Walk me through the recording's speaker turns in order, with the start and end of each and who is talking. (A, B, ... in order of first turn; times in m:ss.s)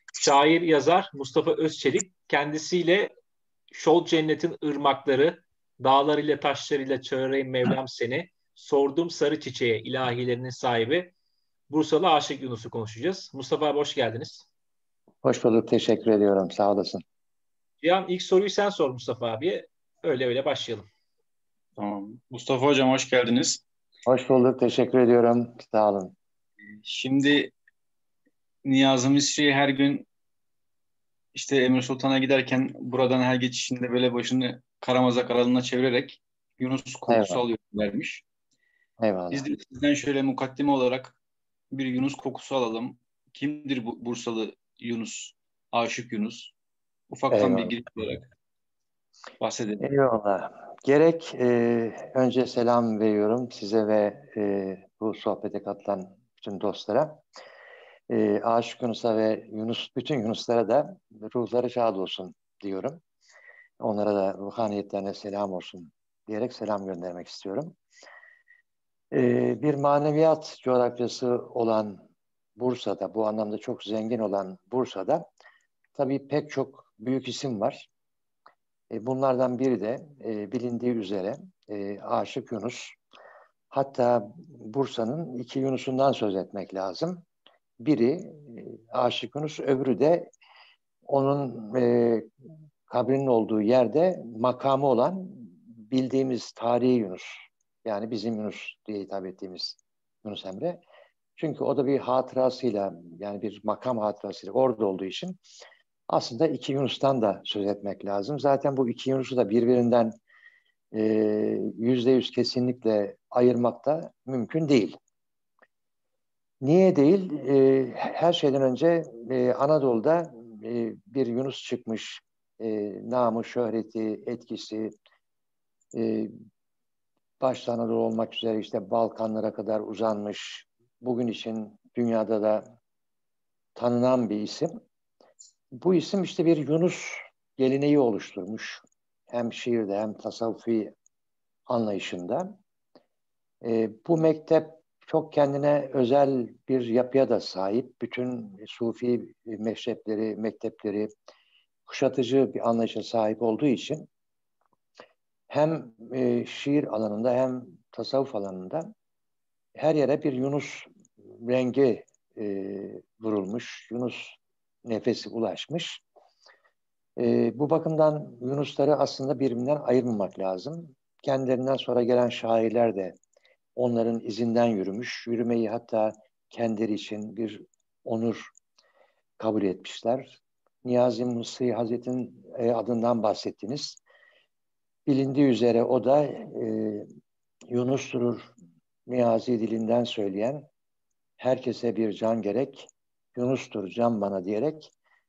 0:00.2-0:03.1 A
0:03.7-0:11.1 A
0:11.7-0:14.5 A
0:15.2-0:17.0 B
0:17.8-0:20.9 A
0:21.8-0:23.6 C
0:24.1-0:26.2 B
0:26.8-0:27.5 C
0:28.6-0:30.1 C
0:31.3-0:38.2 C
0:37.1-0:37.4 B
0:39.0-0:39.4 B
0:39.3-0:41.2 C
0:41.7-0:46.5 C
0:47.1-0:48.3 C
0:47.3-0:47.7 B
0:49.4-0:49.9 C
0:49.8-0:57.2 B
0:58.1-1:03.0 B
1:03.8-1:07.8 B
1:09.1-1:12.0 B
1:12.6-1:15.2 B
1:16.0-1:17.9 B
1:18.9-1:23.0 B
1:23.7-1:27.2 B
1:27.8-1:30.3 B
1:31.1-1:32.3 B
1:32.9-1:40.8 B
1:41.4-1:45.4 B
1:46.1-1:50.2 B
1:50.9-1:55.0 B
1:56.6-2:04.9 B
2:05.9-2:06.3 B
2:07.4-2:12.7 B
2:13.8-2:14.7 B
2:15.8-2:20.9 B
2:21.7-2:22.5 B
2:23.6-2:31.1 B
2:31.9-2:34.1 B
2:35.5-2:38.9 B
2:39.8-2:46.0 B
2:47.2-2:53.2 B
2:53.8-2:58.5 B
2:59.4-3:04.0 B
3:05.1-3:07.1 B
3:07.7-3:08.5 B
3:09.1-3:10.7 B
3:11.4-3:14.9 B